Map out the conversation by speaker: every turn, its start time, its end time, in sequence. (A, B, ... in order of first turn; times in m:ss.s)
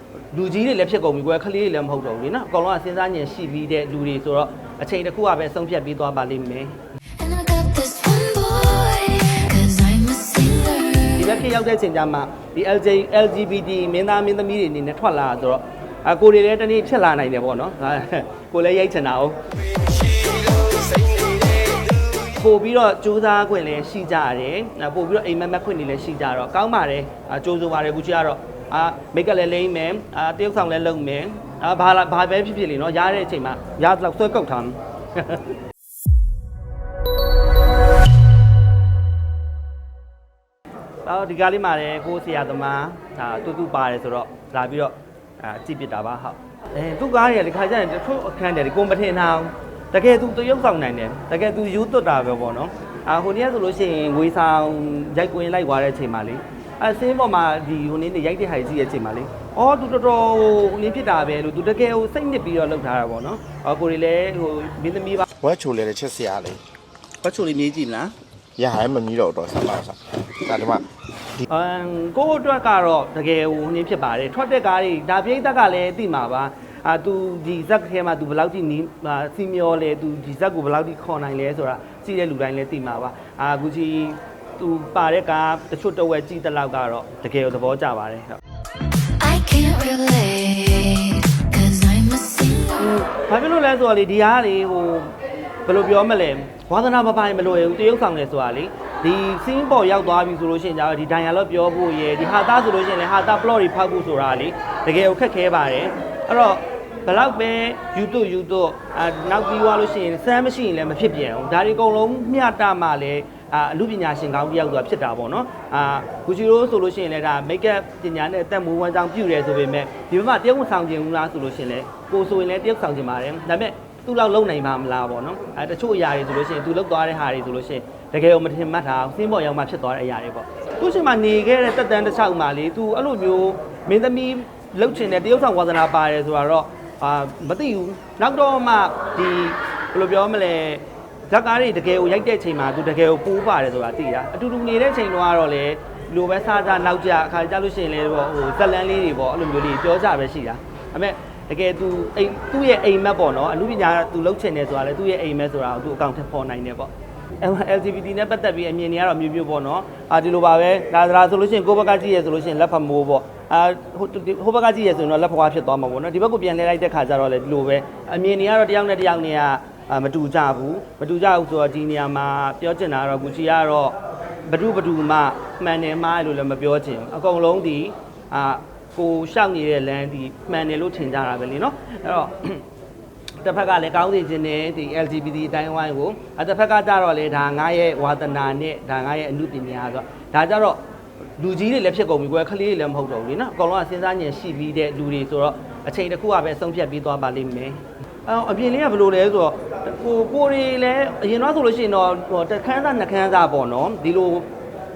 0:00.3-0:06.8 A
0:07.2-0:11.4 B
0:11.2-0:19.4 A
0:22.2-0:35.4 A
0:41.0-1:05.2 A
1:05.4-1:06.6 C
1:07.2-1:08.1 A
1:08.6-1:10.8 C
1:11.5-1:28.4 A
1:29.2-1:33.0 B
1:32.8-1:35.1 A
1:35.6-3:02.6 A
3:03.4-3:10.8 A
3:11.4-3:24.5 A